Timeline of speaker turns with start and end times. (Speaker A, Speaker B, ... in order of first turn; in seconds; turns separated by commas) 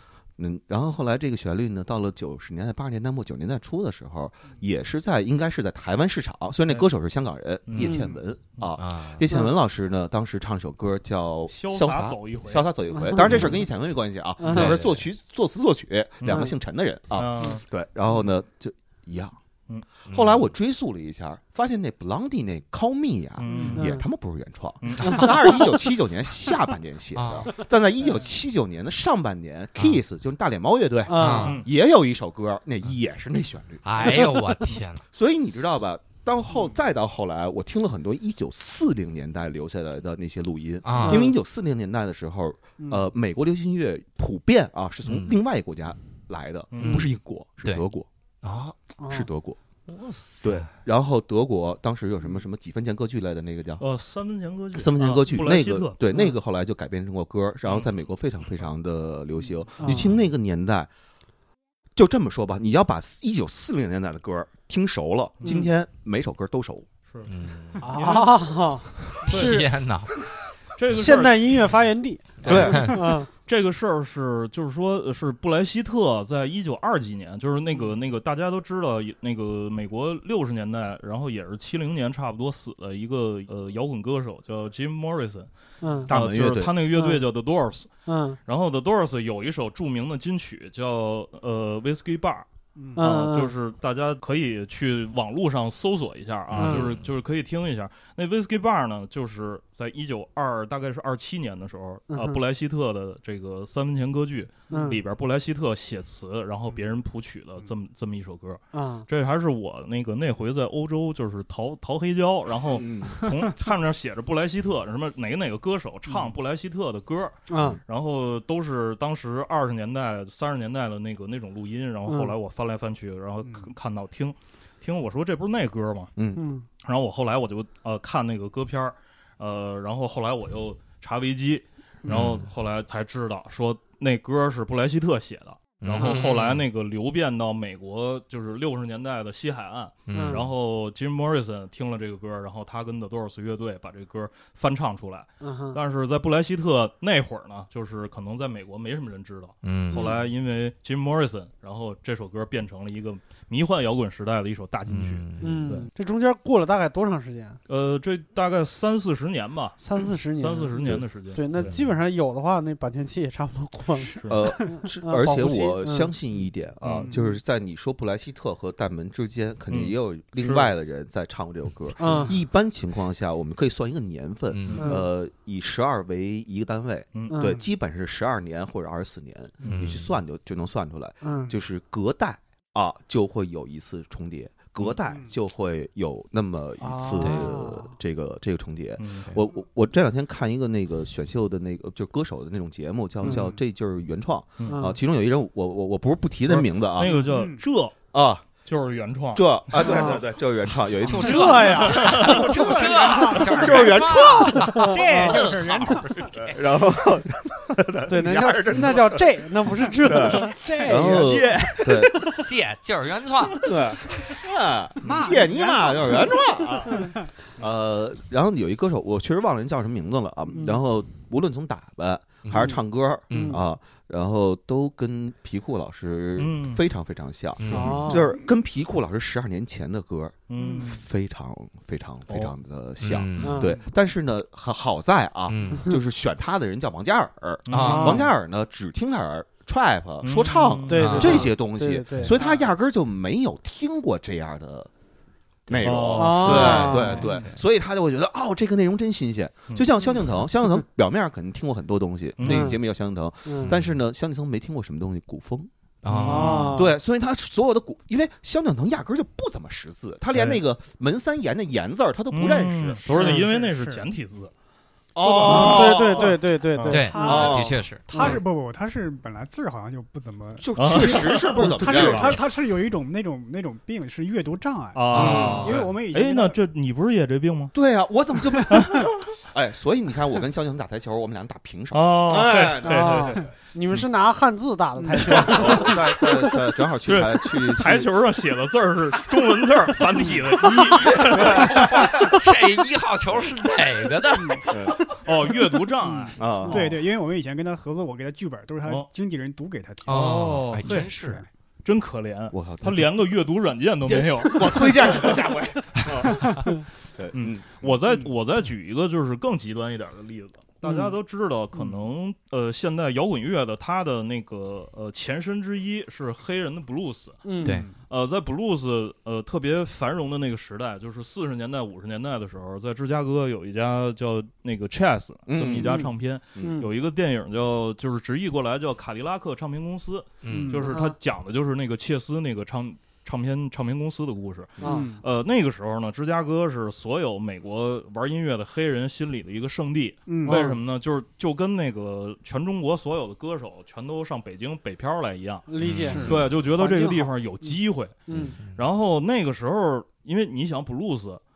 Speaker A: 0.4-19.4, Speaker B: 7.7-8.0, Speaker C: 7.8-8.1, Speaker D: 8.8-9.3, Speaker B: 11.5-12.7, Speaker C: 12.9-13.6, Speaker C: 14.4-14.8, Speaker D: 14.5-15.0, Speaker B: 16.2-16.5, Speaker B: 17.1-17.6, Speaker D: 20.1-20.5, Speaker A: 20.1-34.3, Speaker B: 23.4-23.9, Speaker C: 23.5-24.0, Speaker B: 24.8-25.4, Speaker D: 27.1-27.6, Speaker C: 31.1-31.6, Speaker D: 31.1-31.6, Speaker B: 31.3-31.7, Speaker D: 33.8-35.0, Speaker A: 35.1-48.1, Speaker D: 40.8-41.3, Speaker C: 41.0-41.4, Speaker D: 45.0-45.4, Speaker B: 46.7-47.1, Speaker D: 46.8-47.1, Speaker D: 48.4-48.8, Speaker C: 49.0-49.3, Speaker A: 49.1-49.6, Speaker D: 49.9-50.7, Speaker A: 50.4-53.8, Speaker B: 53.8-56.0, Speaker A: 54.7-60.9, Speaker C: 56.1-56.3, Speaker B: 57.6-57.9, Speaker C: 59.8-60.1, Speaker A: 61.9-66.9, Speaker D: 67.2-67.9, Speaker C: 67.8-69.7, Speaker B: 67.8-68.4, Speaker B: 69.2-69.6, Speaker D: 69.3-70.1, Speaker B: 70.8-71.7, Speaker C: 70.9-73.3, Speaker D: 72.4-73.0, Speaker A: 72.4-72.9, Speaker B: 72.5-85.5, Speaker C: 85.8-86.1, Speaker B: 86.1-87.9, Speaker A: 86.1-86.7, Speaker C: 86.9-87.2, Speaker C: 88.0-88.4, Speaker B: 88.5-126.1, Speaker C: 92.9-93.5, Speaker C: 96.5-96.9, Speaker D: 96.6-97.0, Speaker C: 102.1-102.4, Speaker C: 104.7-105.0, Speaker C: 108.7-109.1, Speaker A: 112.7-113.2, Speaker C: 117.5-117.8, Speaker C: 122.1-122.3, Speaker A: 126.2-126.4, Speaker C: 126.3-126.7, Speaker B: 126.8-155.9, Speaker E: 132.0-132.3, Speaker D: 132.1-132.4, Speaker D: 135.8-136.6, Speaker C: 136.0-136.2, Speaker D: 140.1-140.5, Speaker C: 140.1-140.5, Speaker C: 145.4-145.8, Speaker D: 149.6-150.1, Speaker C: 149.9-150.2, Speaker D: 154.9-155.7, Speaker C: 155.4-157.6, Speaker B: 157.7-161.8, Speaker C: 159.8-166.1, Speaker A: 164.3-197.2, Speaker B: 166.8-167.1, Speaker C: 167.1-167.4, Speaker B: 169.7-170.7, Speaker C: 172.0-172.3, Speaker B: 172.0-172.3, Speaker D: 174.5-174.9, Speaker B: 174.7-174.9, Speaker C: 174.8-175.1, Speaker B: 177.1-177.4, Speaker C: 177.3-177.6, Speaker B: 179.6-180.0, Speaker D: 179.6-180.1, Speaker C: 181.2-181.5, Speaker C: 186.8-187.9, Speaker D: 187.2-187.5, Speaker B: 189.0-189.4, Speaker C: 193.2-193.5, Speaker B: 194.6-194.9, Speaker C: 194.7-194.9, Speaker B: 196.5-197.9, Speaker E: 197.3-197.6, Speaker A: 198.1-198.4, Speaker B: 198.6-200.1, Speaker A: 199.3-202.3, Speaker C: 199.8-200.2, Speaker D: 201.0-206.6, Speaker C: 201.1-202.6, Speaker B: 201.7-202.4, Speaker E: 202.2-204.0, Speaker A: 203.2-204.8, Speaker C: 204.7-205.4, Speaker E: 204.8-206.1, Speaker A: 206.3-209.3, Speaker C: 208.1-211.8, Speaker A: 210.0-212.3, Speaker B: 210.9-212.3, Speaker D: 212.4-213.7, Speaker A: 213.6-244.9, Speaker E: 215.0-216.3, Speaker C: 220.5-220.8, Speaker D: 222.4-222.7, Speaker D: 223.3-223.6, Speaker C: 223.3-223.6, Speaker B: 226.4-226.8, Speaker D: 227.6-228.2, Speaker C: 227.7-228.3, Speaker B: 230.5-231.0, Speaker E: 230.6-230.9, Speaker B: 232.3-232.5, Speaker D: 233.0-233.7, Speaker C: 233.4-233.8, Speaker D: 235.5-235.9, Speaker B: 237.7-238.2, Speaker D: 237.7-238.2, Speaker C: 237.8-238.2, Speaker B: 240.2-241.4, Speaker C: 240.9-242.5, Speaker D: 240.9-241.5, Speaker D: 245.7-247.6, Speaker A: 245.7-255.7, Speaker B: 245.8-247.1, Speaker C: 246.2-247.3, Speaker B: 252.4-252.7, Speaker C: 252.4-252.8, Speaker C: 253.4-253.7, Speaker D: 256.0-256.8, Speaker B: 256.1-256.8, Speaker C: 256.2-256.9, Speaker A: 256.7-263.1, Speaker B: 260.3-260.6, Speaker B: 262.3-264.5, Speaker C: 263.1-263.5, Speaker E: 263.1-264.1, Speaker A: 265.1-266.4, Speaker B: 265.4-265.9, Speaker C: 265.4-267.4, Speaker B: 266.7-267.0, Speaker D: 266.9-268.1, Speaker E: 266.9-276.6, Speaker A: 267.2-267.8, Speaker C: 268.1-268.4, Speaker B: 268.1-268.4, Speaker A: 270.6-272.4, Speaker B: 270.7-272.4, Speaker B: 274.9-277.7, Speaker A: 275.1-275.8, Speaker D: 275.1-275.8, Speaker A: 277.7-283.3, Speaker B: 278.7-279.1, Speaker B: 281.9-283.5, Speaker C: 282.8-286.2, Speaker E: 285.0-285.5, Speaker B: 285.3-285.9, Speaker A: 285.4-288.1, Speaker B: 287.1-292.1, Speaker D: 291.0-295.1, Speaker A: 291.3-292.3, Speaker E: 294.4-294.7, Speaker A: 294.7-295.0, Speaker B: 295.2-296.9, Speaker E: 296.0-301.4, Speaker A: 296.4-296.9, Speaker D: 300.0-301.4, Speaker B: 300.1-301.1, Speaker B: 301.8-305.4, Speaker A: 302.5-303.1, Speaker A: 304.1-307.9, Speaker B: 307.3-317.5, Speaker C: 310.8-311.1, Speaker C: 317.4-317.8, Speaker D: 317.6-317.9, Speaker E: 317.6-317.9, Speaker B: 318.1-351.4, Speaker A: 325.5-326.8, Speaker C: 325.8-326.9, Speaker D: 330.4-330.8, Speaker E: 330.5-330.9, Speaker C: 330.7-331.1, Speaker C: 334.8-335.1, Speaker E: 334.8-335.2, Speaker E: 340.3-340.7, Speaker C: 340.4-340.8, Speaker C: 345.7-348.6, Speaker D: 345.8-346.4